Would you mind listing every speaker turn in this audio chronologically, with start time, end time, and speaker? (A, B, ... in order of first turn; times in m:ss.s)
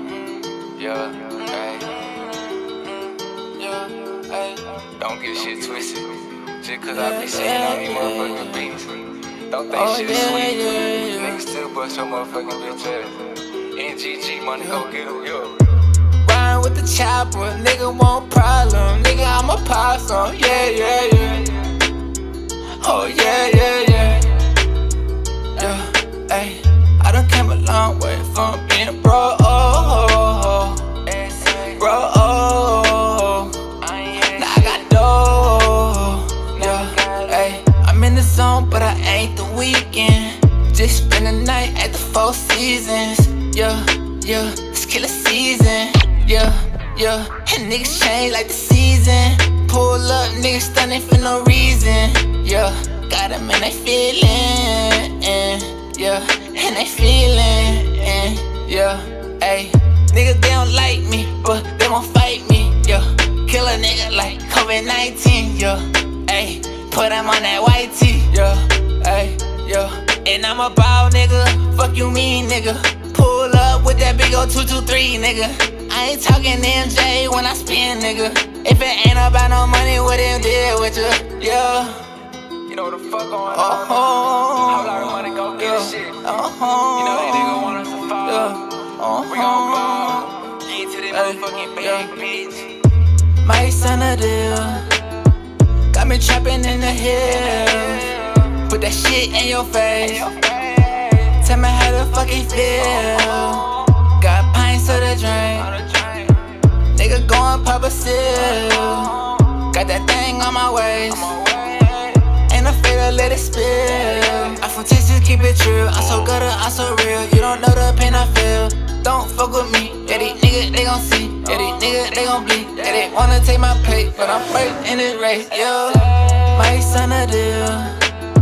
0:00.8-0:02.4 A
0:03.6-0:15.8 A
0:06.9-0:08.7 B
0:09.7-0:11.5 B
0:16.2-0:21.7 B
0:22.8-0:24.5 B
0:25.6-1:22.1 B
0:33.8-0:34.8 A
0:36.6-0:37.6 A
1:22.7-1:26.2 A
1:23.5-1:30.5 B
1:27.0-1:28.6 A
1:29.3-1:32.9 A
1:31.1-1:32.2 B
1:33.4-1:35.1 B
1:35.9-1:40.4 B
1:37.7-1:38.2 A
1:40.2-1:41.3 A
1:41.2-1:45.8 B
1:45.7-1:46.5 A
1:46.8-1:51.4 B
1:51.3-1:52.3 A
1:52.2-2:08.2 B